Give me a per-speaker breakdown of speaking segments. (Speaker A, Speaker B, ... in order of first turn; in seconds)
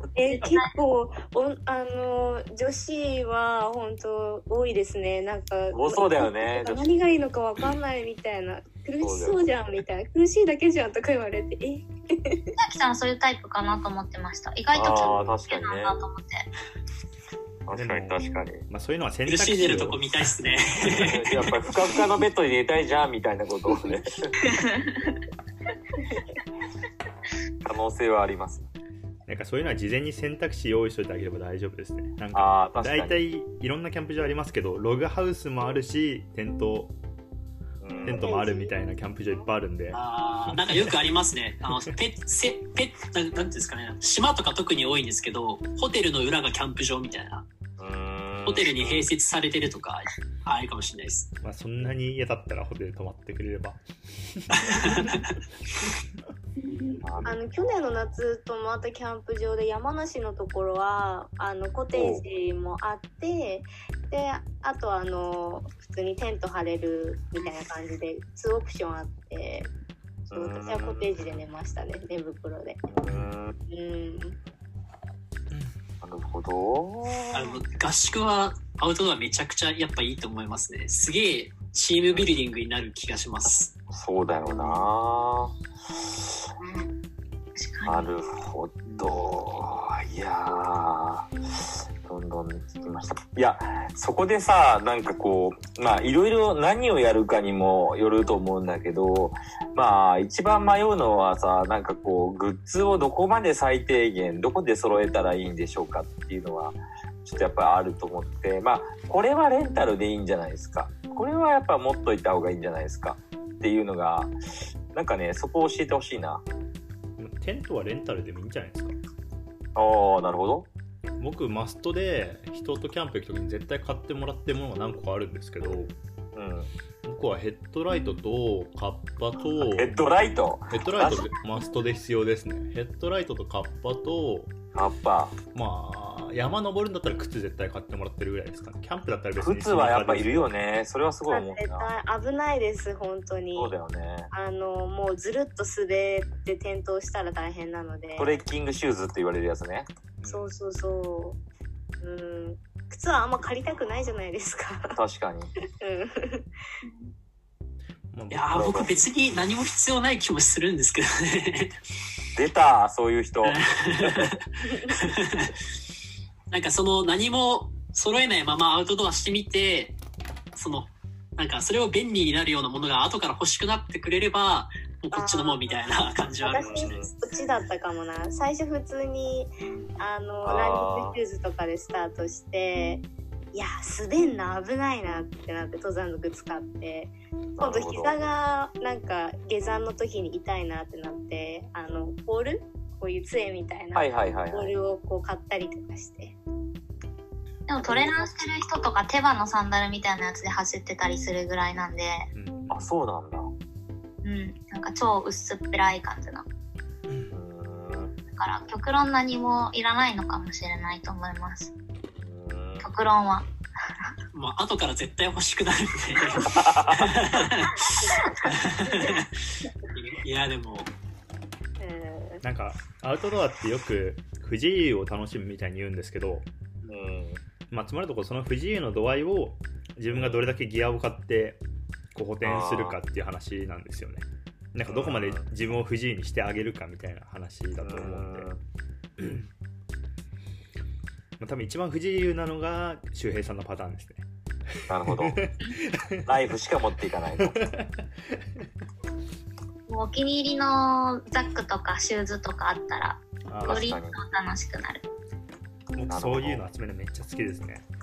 Speaker A: 0.1-12.5, 38.0-38.8, 57.2-69.7, 70.3-72.8, 73.7-74.4, 141.3-143.7, 144.3-148.4, 150.2-151.4, 152.0-155.0, 155.8-156.5, 164.6-165.0, 175.1-196.4, 197.9-198.2, 221.8-222.4
Speaker B: 0.3-0.7, 12.6-16.5, 24.7-25.0, 56.6-57.0, 87.6-88.2, 156.8-157.1, 197.7-202.3, 204.2-206.4, 208.3-211.7, 212.8-213.5, 249.9-255.0
Speaker C: 5.7-7.0, 9.0-9.4, 14.7-16.0, 17.7-18.6, 20.9-24.4, 27.6-28.7, 32.3-33.2, 37.8-38.3, 47.8-49.1, 57.0-57.4, 61.9-62.2, 70.3-71.1, 72.9-73.6, 76.0-77.6, 83.9-86.4, 87.8-114.3, 114.9-116.4, 119.8-120.7, 126.3-126.7, 129.7-131.3, 134.8-135.3, 139.4-141.9, 143.5-144.3, 148.2-149.9, 154.9-155.5, 158.5-159.0, 162.3-164.3, 176.5-177.1, 180.4-181.2, 187.6-188.3, 193.9-194.8, 202.7-203.5, 207.3-208.2, 212.2-212.9, 216.4-217.2, 226.9-227.4, 230.1-230.4, 232.4-233.0, 234.9-235.5, 237.8-238.6, 244.9-245.4, 246.2-247.6, 253.6-254.2, 256.1-256.6
Speaker D: 17.7-20.0, 29.3-37.0, 38.1-41.0, 51.4-55.2, 117.2-119.0, 121.2-125.9, 127.0-130.0, 130.7-134.5, 135.5-140.5, 150.2-150.6, 158.1-158.9, 202.3-202.9, 207.1-207.3, 222.4-226.5, 227.7-231.6, 232.1-238.5, 239.2-239.5, 241.4-244.3, 245.1-246.3, 247.5-248.7, 253.5-253.9, 255.9-257.9
Speaker E: 19.3-21.5, 39.9-47.5, 48.5-51.3, 54.6-55.4, 77.3-83.7, 158.3-161.8, 163.4-165.5, 166.5-170.0, 170.6-177.0, 214.3-219.3, 219.9-220.9